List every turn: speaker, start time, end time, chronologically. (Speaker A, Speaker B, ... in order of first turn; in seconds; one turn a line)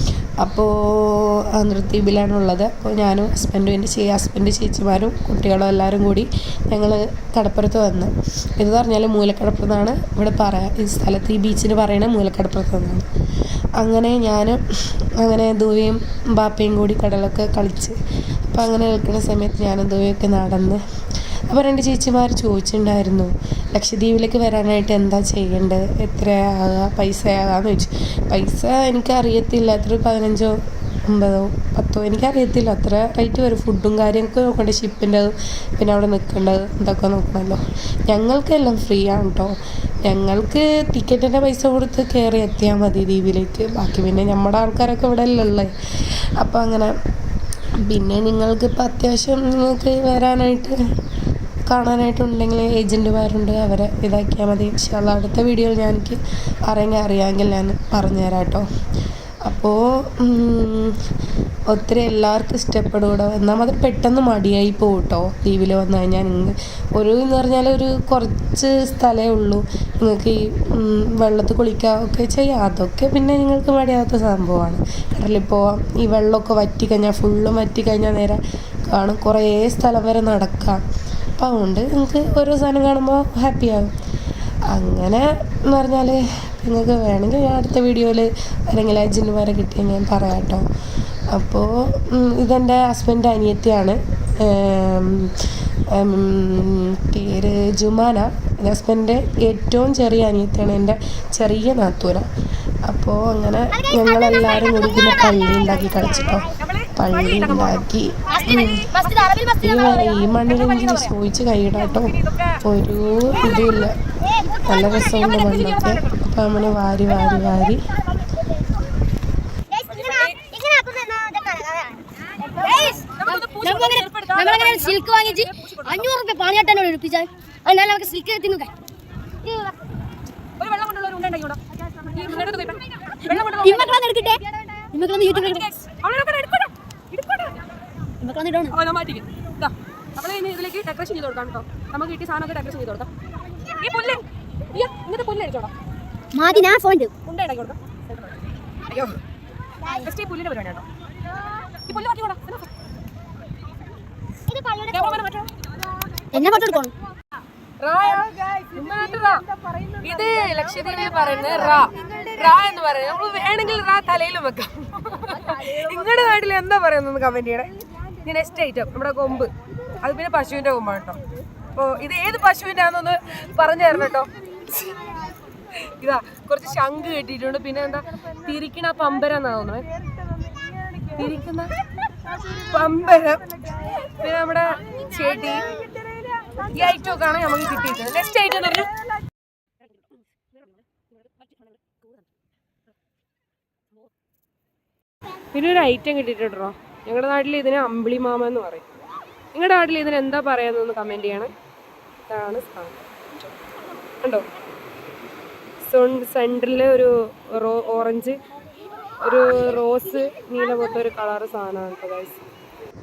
Speaker A: 0.4-13.1
Speaker A: 13.8-14.6
Speaker A: 15.2-20.8
Speaker A: 21.5-45.7
Speaker A: 46.4-46.9
Speaker A: 47.8-50.8
Speaker A: 51.7-58.7
Speaker A: 59.5-61.0
Speaker A: 61.7-80.8
Speaker A: 81.4-83.9
Speaker A: 84.7-90.7
Speaker A: 91.3-95.3
Speaker A: 95.9-102.3
Speaker A: 102.9-108.9
Speaker B: 103.7-105.5
Speaker C: 106.5-109.6
Speaker B: 108.3-110.2
Speaker A: 109.6-117.8
Speaker C: 110.3-111.1
Speaker C: 111.8-112.6
Speaker C: 115.0-116.2
Speaker B: 119.7-128.7
Speaker C: 119.9-120.4
Speaker C: 122.6-126.1
Speaker B: 129.4-129.7
Speaker C: 130.6-134.1
Speaker B: 133.3-135.7
Speaker C: 135.2-137.6
Speaker B: 138.2-138.8
Speaker C: 138.7-143.1
Speaker C: 143.8-145.7
Speaker B: 146.3-147.1
Speaker C: 146.5-149.2
Speaker C: 149.9-150.9
Speaker C: 151.9-152.7
Speaker B: 154.5-155.2
Speaker C: 154.9-155.5
Speaker B: 156.3-156.9
Speaker C: 156.4-156.8
Speaker C: 157.8-167.7
Speaker C: 168.2-171.2
Speaker C: 171.8-175.2
Speaker C: 175.8-179.9
Speaker C: 180.4-181.8
Speaker C: 182.5-188.9
Speaker C: 195.5-198.9
Speaker C: 199.5-201.5
Speaker C: 202.3-203.5
Speaker C: 204.2-204.5
Speaker C: 205.8-208.4
Speaker C: 209.2-212.4